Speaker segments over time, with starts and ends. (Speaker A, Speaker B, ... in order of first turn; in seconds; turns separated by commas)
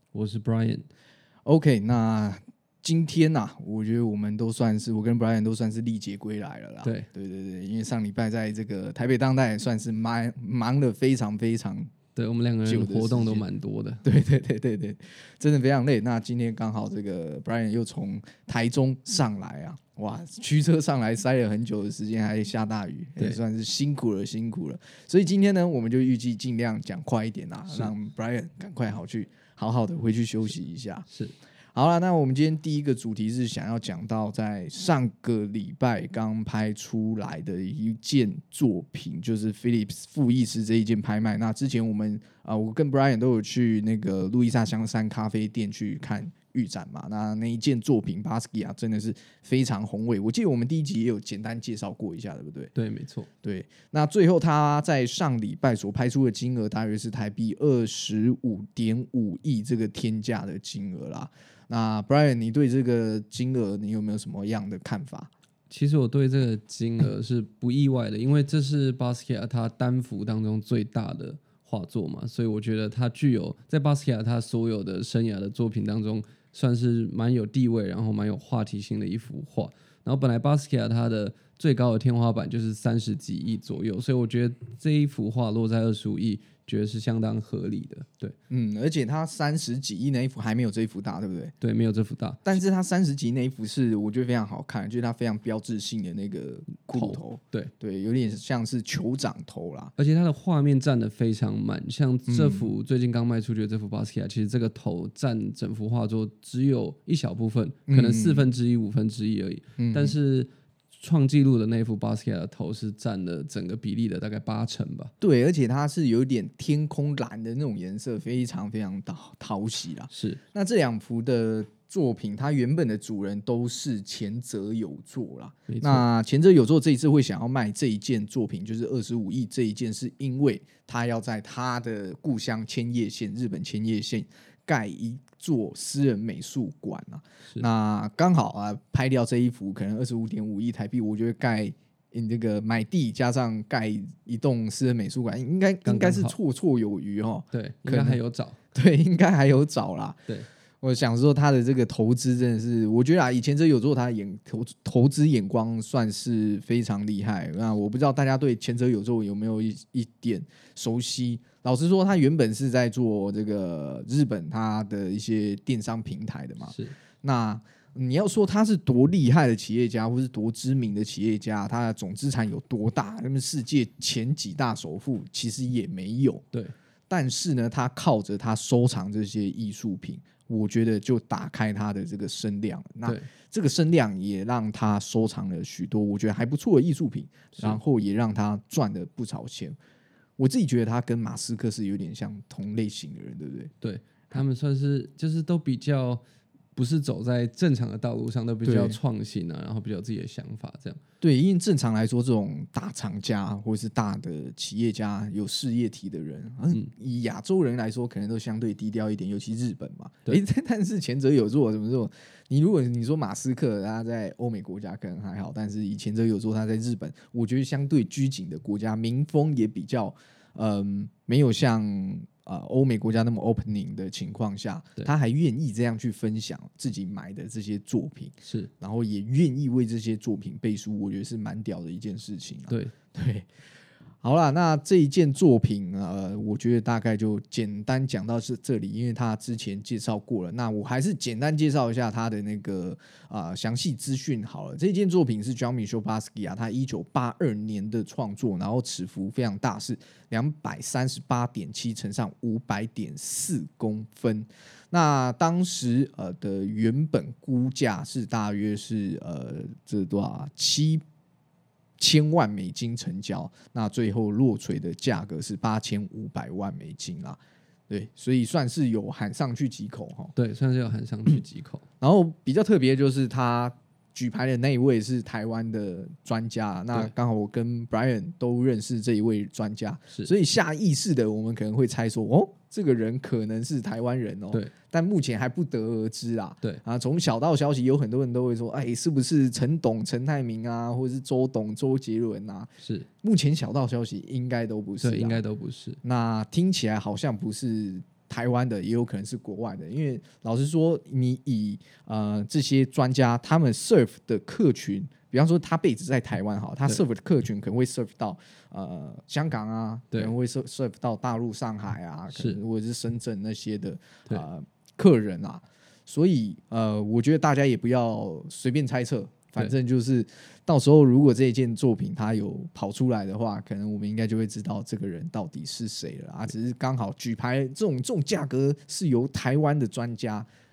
Speaker A: 0.1-0.9, Speaker B: 1.5-11.9, Speaker A: 12.2-14.0, Speaker B: 12.7-13.4, Speaker B: 14.0-31.1, Speaker A: 31.1-31.4, Speaker B: 31.8-52.7, Speaker A: 52.8-53.3, Speaker B: 53.4-65.3, Speaker A: 65.7-88.4, Speaker B: 88.5-91.5, Speaker A: 91.6-92.6, Speaker B: 92.5-99.9, Speaker A: 96.9-97.7, Speaker A: 100.0-115.1, Speaker B: 102.3-102.7, Speaker B: 107.9-108.5, Speaker B: 109.8-110.2, Speaker B: 115.2-148.2, Speaker A: 120.1-120.4, Speaker A: 125.7-126.0, Speaker A: 145.8-146.4, Speaker A: 147.5-148.6, Speaker B: 148.7-150.3, Speaker B: 150.8-176.4, Speaker A: 166.7-166.9, Speaker B: 177.1-189.8, Speaker B: 190.4-193.7, Speaker A: 193.8-196.2, Speaker A: 196.8-201.0, Speaker B: 198.7-199.0, Speaker B: 201.2-233.5, Speaker A: 228.4-228.7, Speaker B: 234.2-261.0, Speaker B: 262.0-267.4, Speaker B: 267.9-270.3, Speaker A: 270.4-271.9, Speaker B: 272.0-295.4, Speaker A: 292.8-293.1, Speaker A: 295.0-296.0, Speaker B: 296.0-330.5, Speaker A: 312.3-312.6